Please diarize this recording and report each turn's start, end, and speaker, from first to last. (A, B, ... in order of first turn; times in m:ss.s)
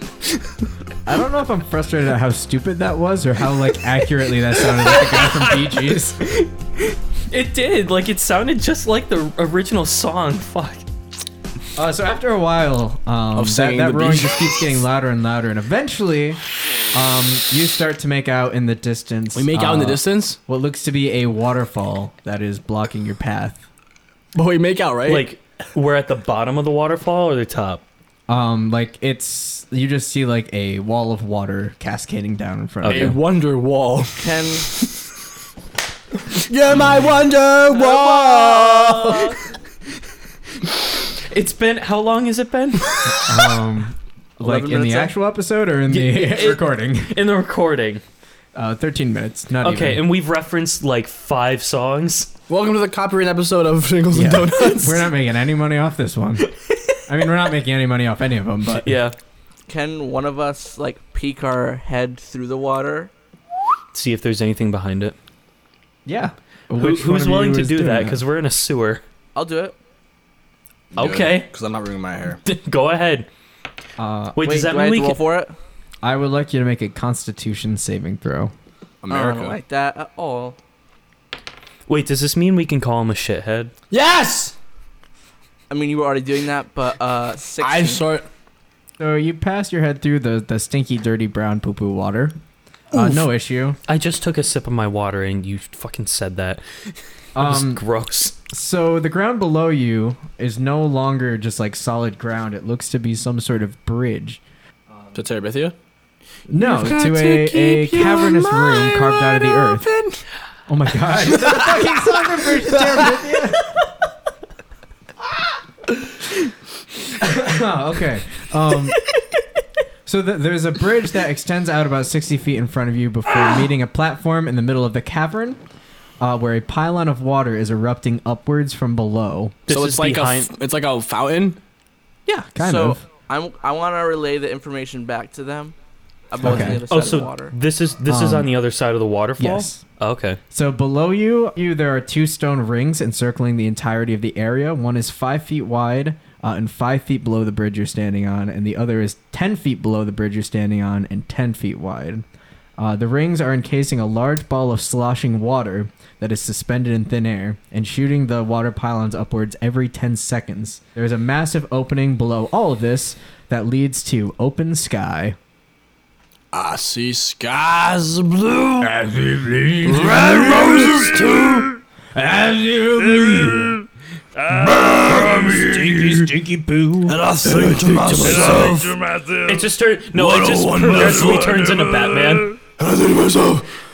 0:01.0-0:06.2 A
0:06.2-0:10.9 B
0:11.8-0:16.4 A
0:13.4-0:14.7 C
0:16.9-0:23.6 A
0:19.3-0:20.4 C
0:24.4-0:25.3 C
0:25.1-0:27.8 B
0:28.3-0:33.2 A
0:32.8-0:33.2 B
0:32.8-0:34.9 C
0:34.2-0:34.7 D
0:36.3-0:39.3 C
0:37.7-0:39.4 D
0:41.1-0:43.1 B
0:43.1-0:47.2 A
0:44.5-0:45.1 C
0:45.9-0:48.0 B
0:48.5-0:50.1 A
0:49.6-0:52.3 B
0:52.5-0:55.1 C
0:54.1-0:56.5 A
0:57.1-0:58.9 A
0:58.8-0:59.2 B
0:59.7-1:03.1 D
1:03.9-1:05.2 B
1:06.0-1:08.2 A
1:06.8-1:09.0 B
1:09.4-1:09.8 D
1:10.9-1:11.5 B
1:10.9-1:12.4 C
1:12.4-1:13.3 B
1:14.0-1:14.4 A
1:14.4-1:15.2 B
1:14.4-1:15.6 D
1:16.0-1:18.5 A
1:19.0-1:19.6 C
1:19.1-1:20.6 D
1:21.9-1:23.7 B
1:23.9-1:24.5 C
1:25.7-1:28.0 D
1:27.6-1:28.3 C
1:29.0-1:32.4 A
1:32.9-1:33.8 A
1:32.9-1:33.2 C
1:33.9-1:36.6 B
1:37.4-1:37.8 A
1:37.4-1:38.4 B
1:38.5-1:44.4 A
1:45.1-1:45.8 C
1:46.5-1:49.9 A
1:46.6-1:50.2 C
1:50.7-1:53.7 A
1:51.4-1:51.9 C
1:52.6-1:53.2 C
1:57.2-1:59.0 A
2:00.0-2:05.6 A
2:06.2-2:09.5 A
2:09.6-2:10.5 B
2:09.7-2:11.6 C
2:12.2-2:13.0 A
2:12.6-2:15.8 D
2:16.3-2:17.5 D
2:16.4-2:16.8 A
2:16.5-2:20.4 B
2:18.0-2:18.5 A
2:19.4-2:19.8 A
2:20.5-2:32.2 A
2:32.8-2:45.4 A
2:46.5-2:51.7 C
2:52.1-2:53.7 A
2:53.1-2:53.5 C
2:54.5-2:56.3 C
2:54.5-3:02.6 B
2:56.0-2:56.3 A
2:57.1-2:59.1 C
3:00.1-3:03.6 C